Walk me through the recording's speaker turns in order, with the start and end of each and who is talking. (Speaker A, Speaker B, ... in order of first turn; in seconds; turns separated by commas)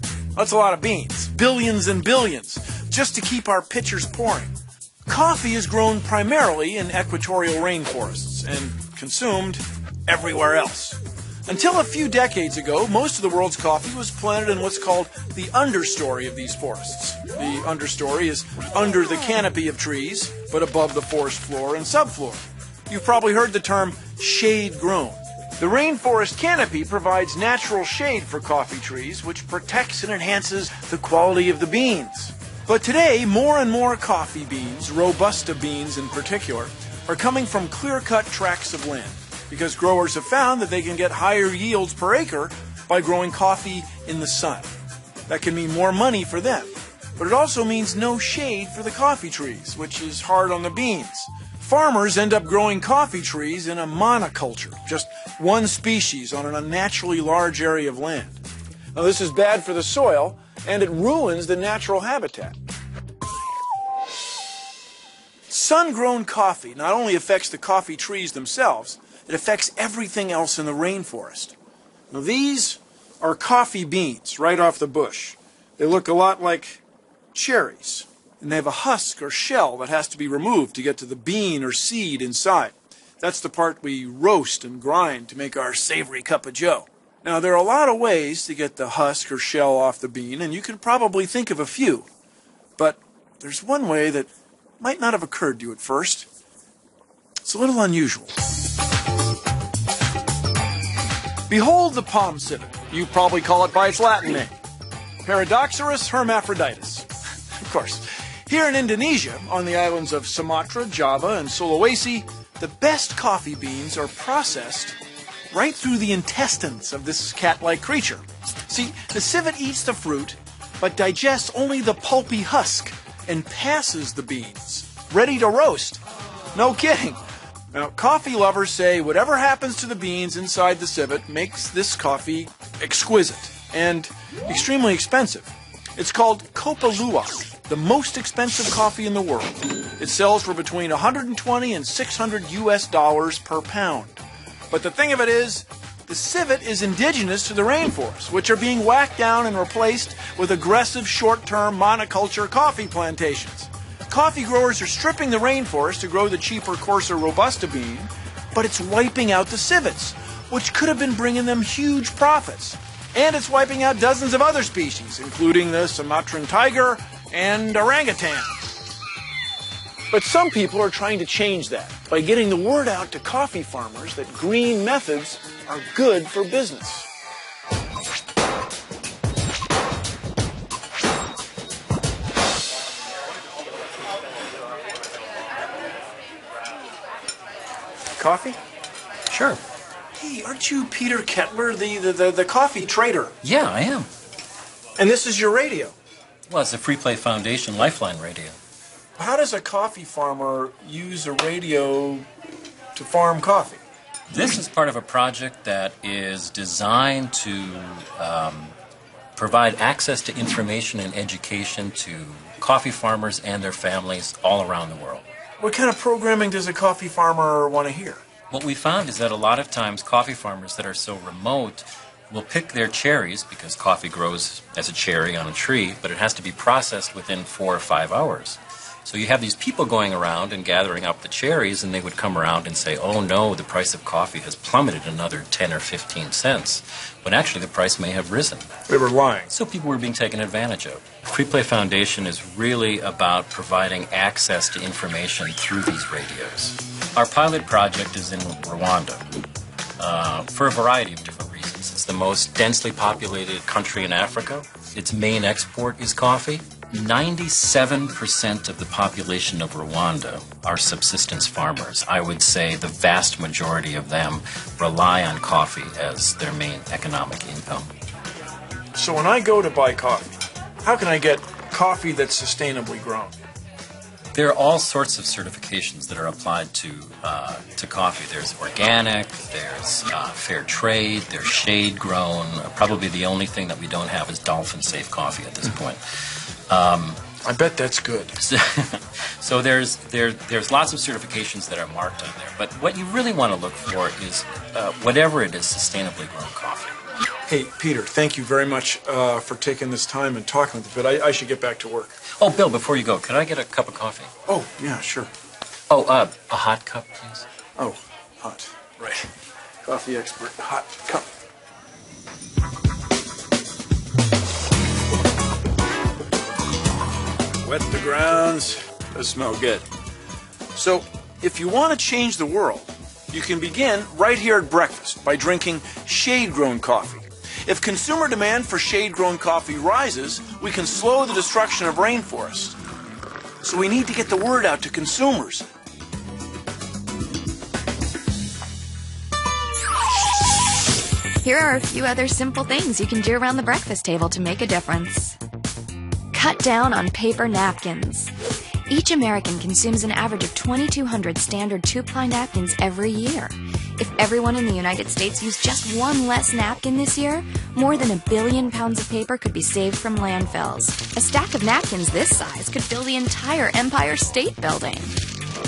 Speaker A: 0.3-4.5, Speaker A: 5.1-44.7, Speaker A: 45.3-58.4, Speaker A: 58.9-62.6, Speaker A: 65.5-71.5, Speaker A: 72.1-76.8, Speaker A: 77.3-92.1, Speaker A: 92.8-96.3, Speaker A: 97.4-98.4, Speaker A: 101.5-104.5, Speaker A: 105.2-107.1, Speaker A: 107.6-115.0, Speaker A: 115.5-126.0, Speaker A: 126.5-127.2, Speaker A: 127.7-144.2, Speaker A: 144.7-168.6, Speaker A: 170.1-177.1, Speaker A: 188.2-188.6, Speaker B: 189.3-189.6, Speaker A: 190.2-193.3, Speaker B: 193.4-194.1, Speaker A: 195.0-195.9, Speaker B: 196.5-198.6, Speaker A: 199.2-202.3, Speaker A: 202.9-203.8, Speaker B: 204.3-208.8, Speaker B: 209.4-215.2, Speaker A: 215.6-218.2, Speaker B: 218.5-238.7, Speaker A: 238.9-239.5, Speaker B: 239.5-249.2, Speaker B: 250.0-267.9, Speaker A: 268.9-273.4, Speaker B: 274.3-287.2, Speaker A: 287.4-288.4, Speaker B: 288.4-296.9, Speaker A: 297.5-302.2, Speaker B: 302.4-304.3, Speaker A: 304.4-305.3, Speaker B: 305.9-307.4, Speaker A: 307.8-309.3, Speaker A: 309.9-311.3, Speaker A: 317.6-319.9, Speaker A: 320.7-332.8, Speaker A: 333.6-335.7, Speaker C: 341.4-345.4, Speaker C: 346.3-348.3, Speaker C: 348.9-365.2